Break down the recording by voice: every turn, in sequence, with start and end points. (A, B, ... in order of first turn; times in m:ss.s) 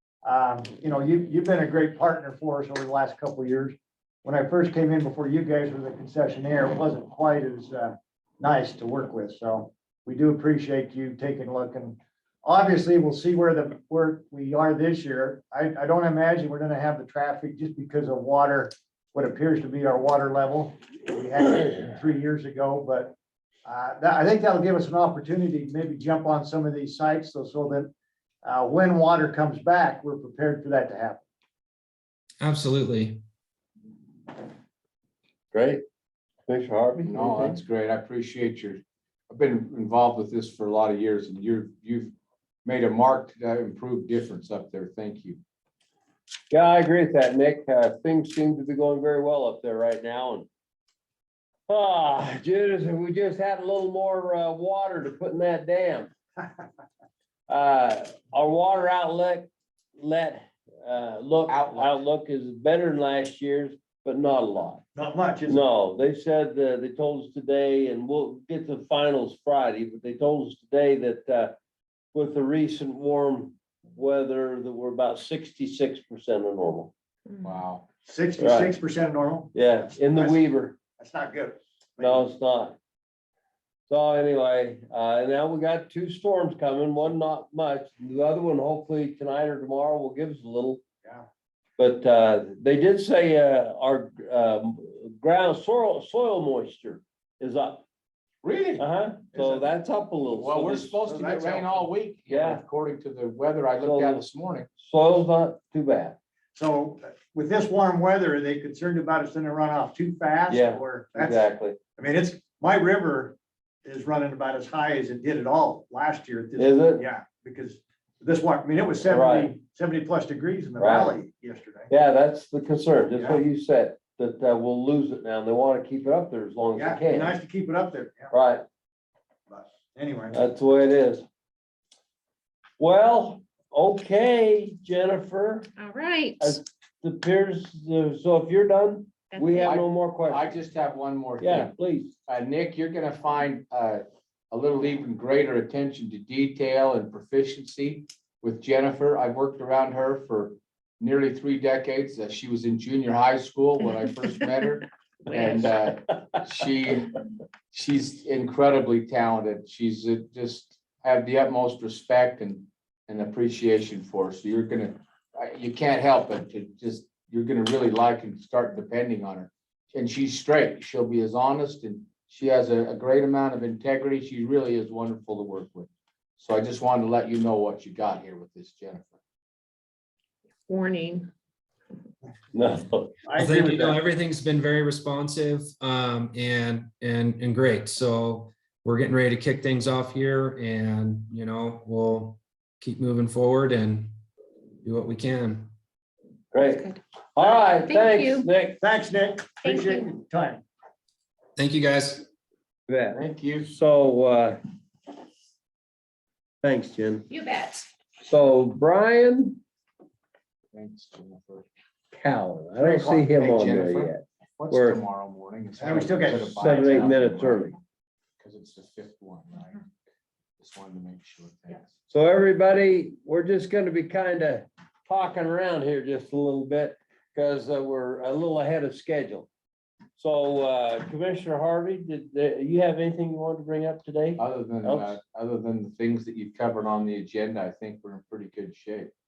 0:00.2-0:27.9 A
0:28.4-0:31.2 A
0:32.4-0:33.2 B
0:35.5-0:35.8 C
0:36.5-0:37.6 C
0:37.0-0:42.1 D
0:42.6-0:45.4 D
0:46.5-0:50.5 C
0:51.7-0:56.1 C
0:57.5-1:04.8 C
1:01.5-1:02.0 D
1:05.0-1:05.6 A
1:05.5-1:11.5 C
1:12.1-1:16.9 C
1:17.4-1:17.8 D
1:18.0-1:20.4 A
1:18.4-1:18.8 C
1:19.5-1:20.8 C
1:21.0-1:22.3 A
1:22.0-1:22.8 C
1:23.9-1:30.8 C
1:31.8-1:37.8 C
1:38.4-1:38.9 D
1:38.8-1:41.4 C
1:39.3-1:39.7 A
1:40.3-1:44.7 D
1:41.1-1:41.8 A
1:42.3-1:42.6 C
1:43.8-1:44.2 C
1:44.8-1:46.2 C
1:46.6-2:01.9 A
1:50.5-1:51.8 C
1:56.6-1:57.0 C
1:59.1-1:59.6 C
2:00.8-2:01.2 C
2:01.9-2:07.4 C
2:03.2-2:03.4 A
2:06.8-2:08.3 A
2:08.3-2:08.6 C
2:09.5-2:10.4 A
2:10.3-2:11.2 C
2:12.8-2:15.7 C
2:15.8-2:16.6 E
2:16.4-2:20.6 C
2:19.3-2:19.8 E
2:19.6-2:21.7 D
2:21.4-2:22.1 C
2:22.3-2:59.2 D
3:00.7-3:01.3 E
3:02.5-3:03.2 C
3:03.3-3:03.9 A
3:03.4-3:14.1 B
3:14.8-3:15.7 B
3:16.5-3:18.8 C
3:16.6-3:17.0 E
3:17.6-3:18.5 E
3:18.8-3:20.6 A
3:19.6-3:20.0 E
3:21.6-3:22.3 B
3:22.9-3:24.6 C
3:23.1-3:23.7 D
3:26.6-3:27.3 C
3:27.3-3:27.9 E
3:28.3-3:29.6 C
3:30.7-3:31.7 D
3:32.1-3:35.0 C
3:32.8-3:37.8 D
3:35.8-3:36.9 A
3:36.5-3:37.8 C
3:38.4-3:39.8 D
3:40.6-3:41.9 D
3:42.1-3:49.5 C
3:50.2-3:55.2 C
3:54.4-3:59.1 D